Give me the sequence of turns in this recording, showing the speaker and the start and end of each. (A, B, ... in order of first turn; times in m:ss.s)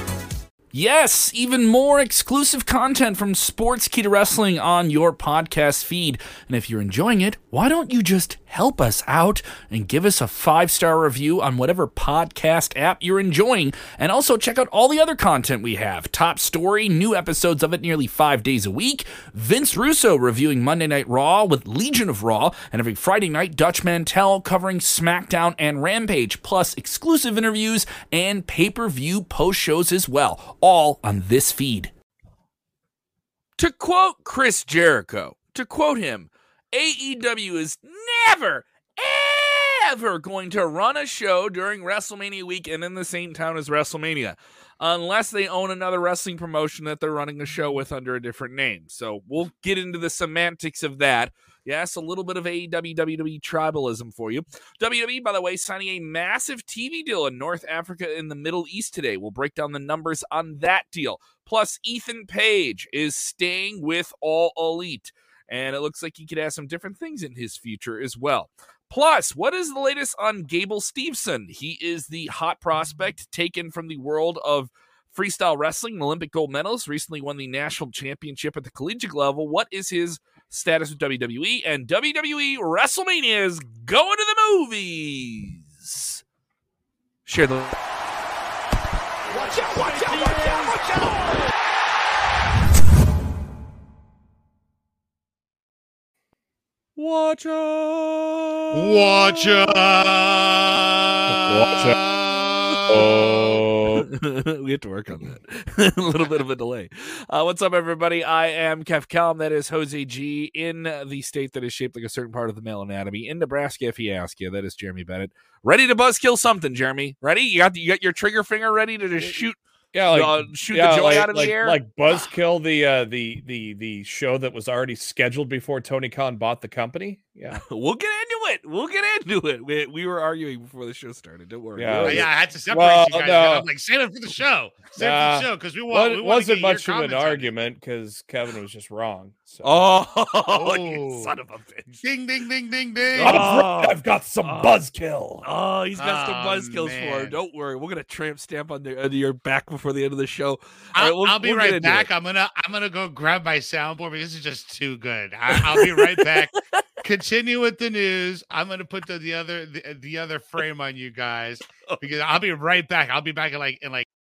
0:00.7-0:31.9 A
0:33.6-1:26.2 A
1:27.2-1:27.8 A
1:29.3-1:31.4 A
1:37.0-1:39.9 A
1:38.7-1:43.6 B
1:41.3-1:42.0 C
1:41.4-1:41.9 A
1:42.9-1:44.1 C
1:43.8-1:59.6 A
1:59.9-2:07.6 C
2:00.1-2:01.8 A
2:07.5-2:12.3 A
2:11.8-2:13.6 C
2:12.0-2:17.5 B
2:15.0-2:19.8 C
2:19.6-2:22.0 A
2:20.5-2:21.3 B
2:22.0-2:23.4 B
2:23.2-2:24.8 A
2:23.2-2:25.4 C
2:25.4-2:32.1 A
2:26.0-2:27.4 B
2:31.0-2:44.1 B
2:35.5-2:36.8 A